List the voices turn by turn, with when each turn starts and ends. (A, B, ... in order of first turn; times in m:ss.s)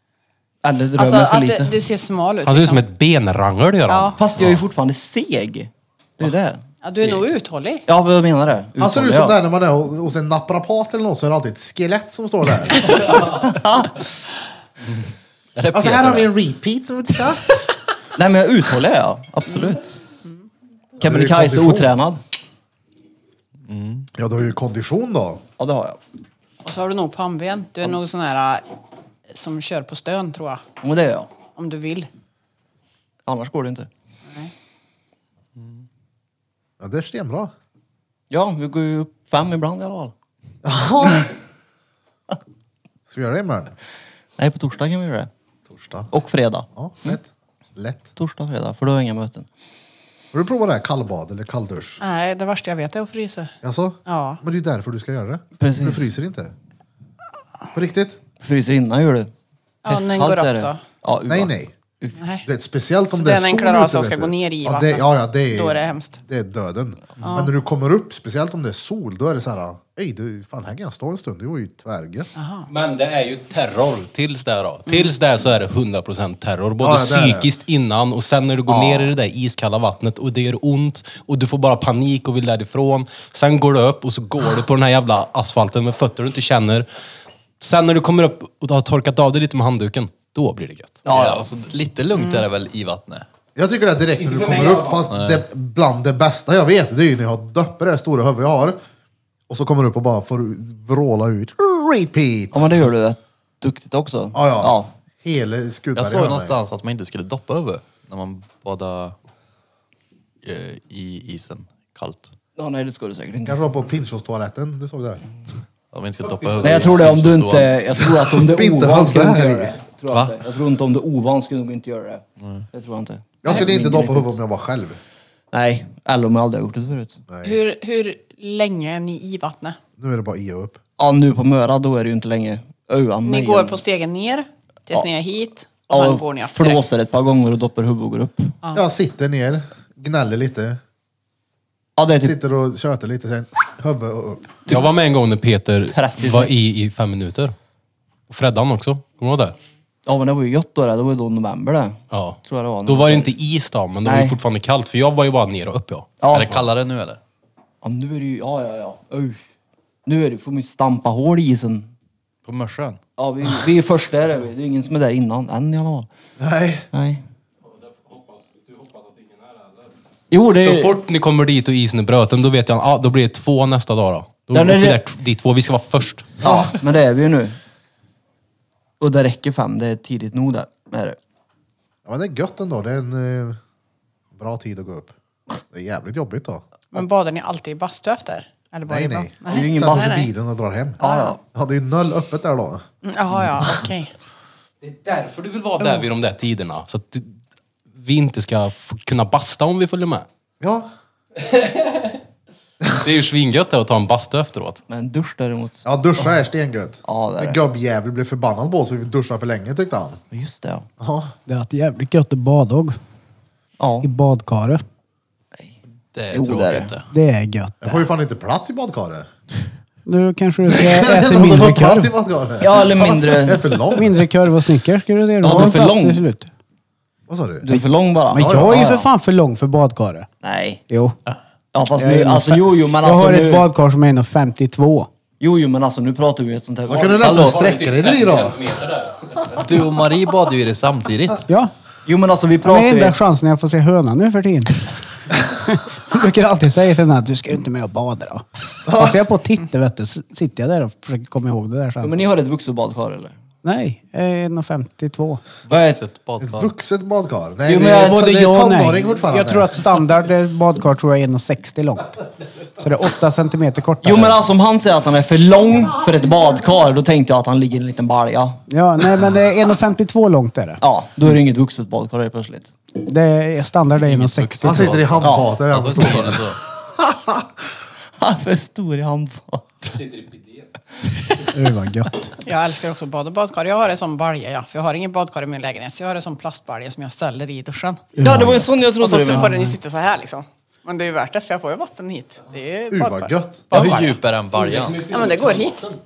0:00.6-0:01.8 A
0:01.0-0:02.8 B
0:02.4-0:04.2 C
0:03.9-0:04.2 B
0:04.2-0:07.2 A
0:06.8-0:07.8 B
0:07.9-0:09.4 A
0:08.8-0:12.9 D
0:13.4-0:13.9 A
0:14.9-0:16.3 E
0:15.7-0:17.4 D
0:18.2-0:19.9 A
0:21.0-0:22.2 A
0:21.0-0:21.9 D
0:23.6-0:24.1 E
0:24.2-0:25.4 D
0:25.6-0:26.0 A
0:26.6-0:28.6 B
0:29.3-0:30.6 B
0:30.8-0:31.3 A
0:31.6-0:32.1 B
0:33.3-0:33.9 A
0:35.6-0:35.8 E
0:36.8-0:37.5 D
0:38.3-0:40.1 A
0:40.6-0:41.3 D
0:41.0-0:41.3 A
0:43.1-0:43.8 D
0:44.4-0:45.3 A
0:45.7-0:46.1 D
0:46.1-0:47.2 A
0:46.8-0:48.1 D
0:48.2-0:49.5 A
0:50.3-0:52.0 D
0:52.0-0:53.6 B
0:53.6-0:56.5 D
0:54.1-0:54.4 B
0:55.6-0:56.0 A
0:57.7-0:58.2 D
0:58.4-0:59.3 A
0:59.8-1:00.8 B
0:59.9-1:02.2 A
1:01.3-1:01.7 D
1:02.2-1:02.5 B
1:02.4-1:12.3 D
1:03.1-1:06.2 B
1:07.2-1:07.5 B
1:12.4-1:12.7 B
1:12.7-1:26.9 C
1:16.8-1:17.5 D
1:18.7-1:19.1 A
1:27.6-1:31.0 C
1:31.0-1:31.5 A
1:31.1-1:33.3 E
1:33.6-1:38.8 D
1:34.2-1:35.1 C
1:35.1-1:35.4 E
1:39.5-1:42.7 D
1:42.5-1:44.9 A
1:44.3-1:46.6 D
1:46.0-1:49.2 E
1:50.4-1:52.3 E
1:52.6-1:53.6 A
1:53.5-1:55.2 D
1:55.9-1:57.8 E
1:56.6-2:04.3 A
1:58.3-1:59.8 D
2:00.1-2:00.4 E
2:02.4-2:02.7 E
2:03.4-2:05.0 D
2:05.5-2:07.2 A
2:07.3-2:07.6 D
2:07.4-2:09.8 B
2:10.0-2:10.8 D
2:11.0-2:13.8 A
2:13.2-2:16.8 B
2:15.9-2:18.6 A
2:18.7-2:20.8 D
2:22.0-2:22.4 A
2:22.2-2:24.6 D
2:24.7-2:27.6 C
2:25.9-2:26.5 A
2:28.3-2:29.6 C
2:30.1-2:33.4 A
2:32.1-2:36.1 C
2:34.0-2:34.4 A
2:36.2-2:36.6 A
2:36.3-2:37.2 E
2:37.8-2:39.4 A
2:40.0-2:41.9 A
2:42.4-2:43.0 E
2:43.2-2:46.1 A
2:46.4-2:46.8 D
2:46.9-2:47.2 A
2:47.7-2:49.9 C
2:50.3-2:51.0 A
2:50.5-2:56.4 C
2:54.5-2:55.0 A
2:56.4-2:56.8 D
2:56.4-2:57.6 A
2:59.0-3:01.2 A
3:02.1-3:03.6 D
3:04.3-3:05.1 D
3:05.7-3:06.6 D
3:06.9-3:10.3 B
3:08.9-3:11.0 D
3:09.4-3:10.3 A
3:11.0-3:11.4 B
3:11.0-3:11.4 A
3:11.5-3:12.8 D
3:13.0-3:14.1 B
3:14.8-3:17.4 C
3:17.9-3:20.3 C
3:20.6-3:20.9 D
3:21.4-3:22.2 C
3:22.9-3:24.8 C
3:24.9-3:25.8 A
3:25.8-3:30.2 D
3:27.0-3:27.6 A
3:30.3-3:30.9 A
3:31.0-3:31.4 D
3:31.5-3:33.0 F
3:33.8-3:34.1 A
3:34.0-3:34.8 F
3:36.1-3:37.1 E
3:36.3-3:37.0 A
3:37.1-3:38.0 F
3:37.8-3:39.3 D
3:40.0-3:42.1 F
3:40.7-3:44.3 D
3:42.6-3:43.8 A
3:43.9-3:46.5 F
3:45.4-3:46.2 A
3:47.3-3:47.7 D
3:47.6-3:49.1 A
3:47.7-3:50.3 F
3:48.4-3:48.8 D
3:50.4-3:50.8 A
3:50.9-3:51.2 F
3:51.7-3:53.7 A
3:52.0-3:55.1 F
3:55.4-3:57.7 A
3:56.9-3:58.6 D
3:57.0-3:59.8 C
3:59.5-4:01.5 E
4:01.5-4:01.7 F
4:02.1-4:03.2 A
4:02.6-4:12.2 F
4:08.8-4:09.2 D
4:12.0-4:13.4 A
4:13.6-4:15.4 F
4:15.7-4:16.7 E
4:15.7-4:16.0 A
4:16.4-4:19.8 D
4:17.7-4:18.2 A
4:18.0-4:22.2 F
4:22.8-4:24.4 F
4:24.0-4:28.6 A
4:28.7-4:30.8 F
4:30.8-4:32.7 A
4:33.0-4:35.1 F
4:34.0-4:36.6 E
4:34.6-4:36.5 D
4:35.2-4:35.5 A
4:38.2-4:39.8 A
4:39.9-4:40.7 C
4:41.5-4:42.3 F
4:42.4-4:48.2 B
4:48.2-4:48.7 F
4:48.2-4:49.6 A
4:49.0-4:54.2 B
4:49.3-4:49.8 F
4:52.9-4:53.7 D
4:53.7-4:55.1 E
4:54.8-4:55.9 C
4:55.0-4:55.9 B